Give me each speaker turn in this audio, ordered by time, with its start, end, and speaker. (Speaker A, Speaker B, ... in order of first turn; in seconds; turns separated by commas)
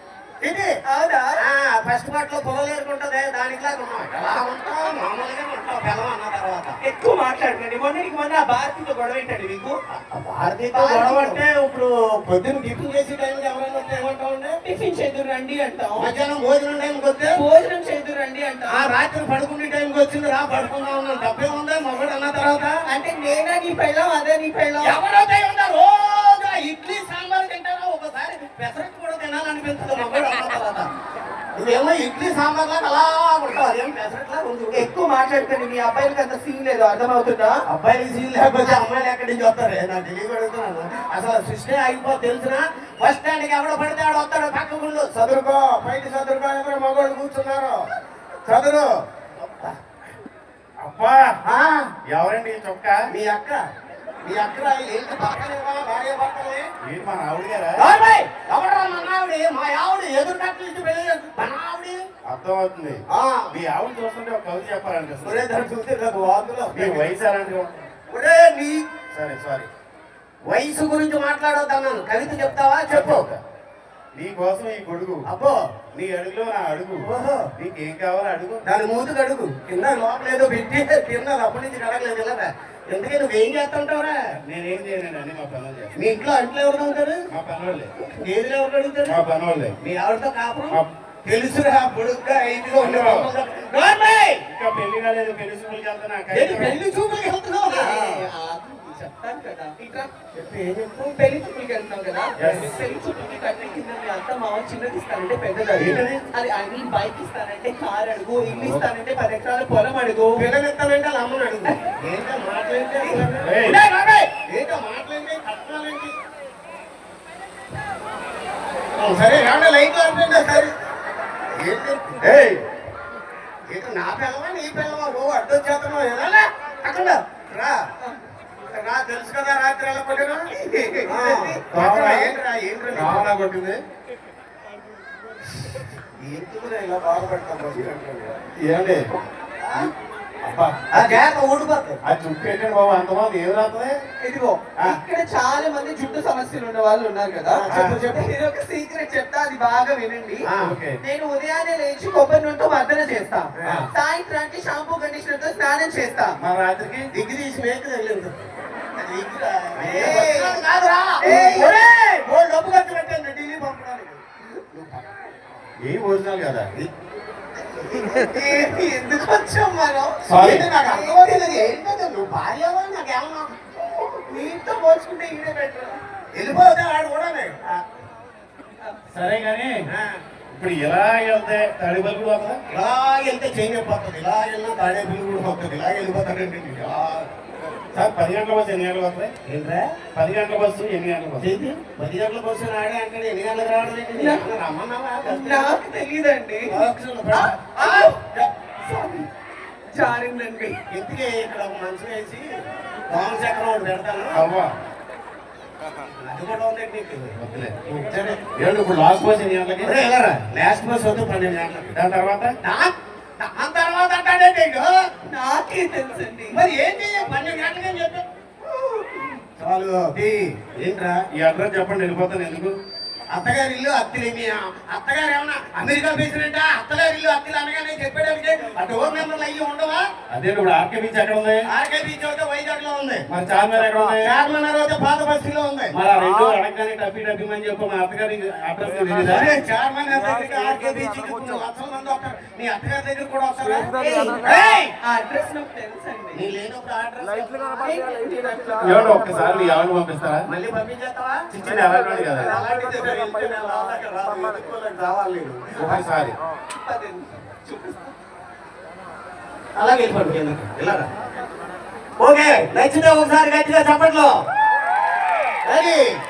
Speaker A: 0.4-0.7, Speaker B: 0.8-1.4, Speaker A: 1.4-6.8, Speaker B: 6.8-9.8, Speaker A: 9.9-14.6, Speaker B: 10.7-11.4, Speaker B: 14.6-16.1, Speaker A: 16.0-17.4, Speaker B: 17.3-18.9, Speaker A: 18.7-22.8, Speaker B: 22.9-25.0, Speaker A: 24.8-30.9, Speaker A: 31.6-34.9, Speaker B: 34.7-37.6, Speaker A: 37.7-47.9, Speaker A: 48.5-49.8, Speaker C: 50.8-51.4, Speaker A: 51.4-51.9, Speaker C: 52.1-53.0, Speaker A: 53.1-53.6, Speaker A: 54.2-56.7, Speaker C: 56.8-57.9, Speaker A: 57.8-62.0, Speaker C: 62.2-65.4, Speaker A: 63.1-63.6, Speaker A: 65.2-67.1, Speaker C: 66.7-67.8, Speaker A: 68.1-68.9, Speaker C: 69.1-69.7, Speaker A: 70.5-73.3, Speaker C: 72.9-73.4, Speaker C: 74.2-75.3, Speaker A: 75.2-75.6, Speaker C: 75.9-78.6, Speaker A: 77.0-77.5, Speaker A: 78.6-84.2, Speaker C: 84.4-85.9, Speaker A: 85.9-87.2, Speaker C: 87.3-87.9, Speaker A: 88.0-89.2, Speaker C: 89.1-89.8, Speaker A: 89.8-94.4, Speaker C: 92.8-93.3, Speaker C: 94.5-96.8, Speaker A: 96.3-98.3, Speaker B: 97.7-100.1, Speaker A: 100.3-101.2, Speaker B: 101.2-110.5, Speaker C: 102.4-102.8, Speaker A: 102.4-102.6, Speaker C: 105.8-106.2, Speaker C: 108.4-108.8, Speaker A: 110.4-116.1, Speaker B: 113.0-113.2, Speaker C: 113.4-113.8, Speaker A: 119.0-120.7, Speaker A: 121.5-122.3, Speaker C: 122.2-122.6, Speaker A: 123.7-127.8, Speaker B: 128.0-128.3, Speaker A: 128.7-133.4, Speaker B: 130.5-131.8, Speaker C: 131.7-132.3, Speaker C: 132.9-133.8, Speaker A: 136.2-138.4, Speaker C: 138.6-139.0, Speaker A: 139.6-139.9, Speaker C: 140.4-141.1, Speaker A: 140.9-142.0, Speaker C: 142.0-144.0, Speaker B: 144.2-150.5, Speaker A: 147.5-148.0, Speaker A: 150.4-150.8, Speaker C: 150.6-151.0, Speaker B: 151.0-156.4, Speaker A: 153.6-153.9, Speaker C: 156.4-157.1, Speaker A: 157.1-165.3, Speaker B: 159.8-160.6, Speaker B: 161.2-161.8, Speaker C: 165.8-166.7, Speaker B: 168.0-170.2, Speaker C: 170.3-170.7, Speaker A: 170.3-173.5, Speaker B: 170.8-171.7, Speaker B: 173.8-176.0, Speaker A: 176.3-177.8, Speaker C: 179.1-179.9, Speaker A: 179.9-180.2, Speaker C: 180.5-182.6, Speaker A: 182.7-187.3, Speaker C: 187.9-189.3, Speaker A: 189.4-189.9, Speaker C: 190.2-191.5, Speaker A: 191.4-195.7, Speaker B: 194.2-194.4, Speaker B: 195.2-196.7, Speaker A: 196.7-198.5, Speaker B: 197.3-198.2, Speaker B: 198.8-199.3, Speaker B: 199.9-200.8, Speaker A: 200.9-204.5, Speaker C: 204.3-204.7, Speaker A: 206.2-207.4, Speaker C: 207.4-207.9, Speaker A: 207.9-208.4, Speaker C: 208.5-209.9, Speaker A: 209.8-211.9, Speaker C: 211.9-212.6, Speaker A: 212.6-215.0, Speaker B: 215.2-216.6, Speaker A: 216.5-218.2, Speaker B: 218.7-219.3, Speaker A: 219.6-221.2, Speaker C: 221.3-222.8, Speaker A: 223.3-230.1, Speaker C: 230.3-231.7, Speaker A: 231.7-233.3, Speaker C: 233.3-234.3, Speaker A: 234.2-236.0, Speaker C: 235.9-239.6, Speaker A: 239.2-244.9, Speaker B: 243.9-244.4, Speaker B: 245.0-246.5, Speaker A: 246.3-247.7, Speaker B: 247.8-249.7, Speaker C: 248.8-250.5, Speaker A: 250.5-256.1, Speaker C: 251.5-252.6, Speaker C: 255.8-256.3, Speaker B: 256.8-258.1, Speaker A: 259.8-261.1, Speaker A: 262.2-264.4, Speaker A: 265.6-266.1